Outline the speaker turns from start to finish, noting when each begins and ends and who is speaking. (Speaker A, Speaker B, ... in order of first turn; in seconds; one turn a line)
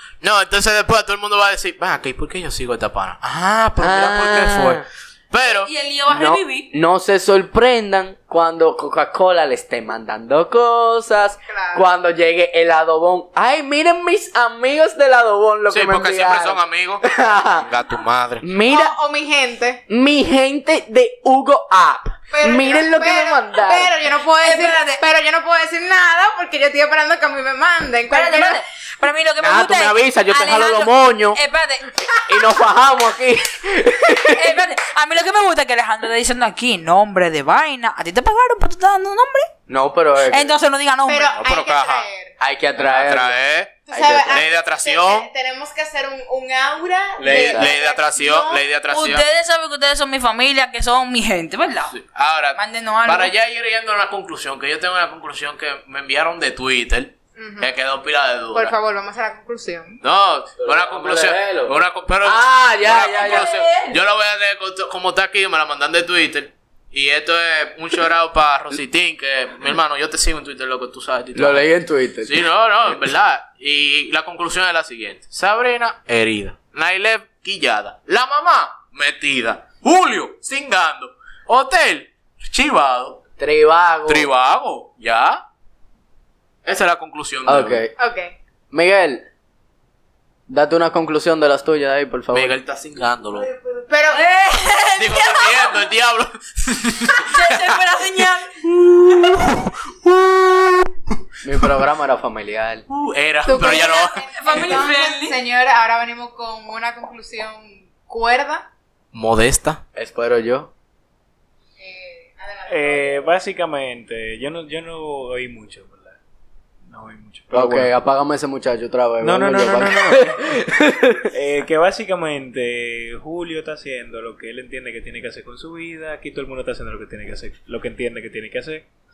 Speaker A: 0.2-5.7
Speaker B: 3.8-4.8
Speaker C: 5.7-6.7
Speaker B: 6.1-17.7
Speaker D: 11.5-11.8
Speaker A: 15.7-18.5
Speaker B: 18.4-19.0
Speaker D: 18.7-19.8
Speaker B: 19.9-23.9
Speaker D: 22.3-28.6
Speaker C: 24.4-25.0
Speaker C: 28.1-31.9
Speaker B: 29.4-31.4
Speaker B: 31.9-34.7
Speaker C: 34.4-39.5
Speaker B: 39.7-40.6
Speaker C: 40.3-41.4
Speaker D: 41.1-42.4
Speaker A: 41.4-42.1
Speaker B: 42.4-43.4
Speaker A: 42.8-45.3
Speaker D: 43.9-48.6
Speaker B: 43.9-44.5
Speaker A: 47.2-49.2
Speaker B: 47.3-47.8
Speaker C: 48.9-52.0
Speaker A: 51.9-58.7
Speaker C: 52.6-53.3
Speaker D: 57.4-57.7
Speaker D: 58.5-60.0
Speaker A: 60.0-71.7
Speaker B: 60.6-63.6
Speaker C: 63.0-64.0
Speaker B: 71.3-72.4
Speaker A: 72.2-83.2
Speaker B: 83.4-84.3
Speaker A: 84.1-85.4
Speaker A: 86.7-87.8
Speaker B: 87.5-87.9
Speaker D: 88.0-88.4
Speaker B: 88.7-89.3
Speaker B: 90.5-92.6
Speaker A: 92.3-93.5
Speaker D: 93.7-94.2
Speaker C: 94.1-95.8
Speaker A: 95.0-100.9
Speaker C: 97.1-98.6
Speaker B: 101.4-102.8
Speaker A: 102.9-104.7
Speaker D: 103.5-108.7
Speaker C: 104.4-105.4
Speaker A: 109.1-109.8
Speaker B: 110.0-110.7
Speaker D: 111.8-113.3
Speaker E: 112.7-116.2
Speaker E: 116.9-117.9
Speaker B: 117.5-121.3
Speaker E: 119.2-120.6
Speaker E: 121.3-128.9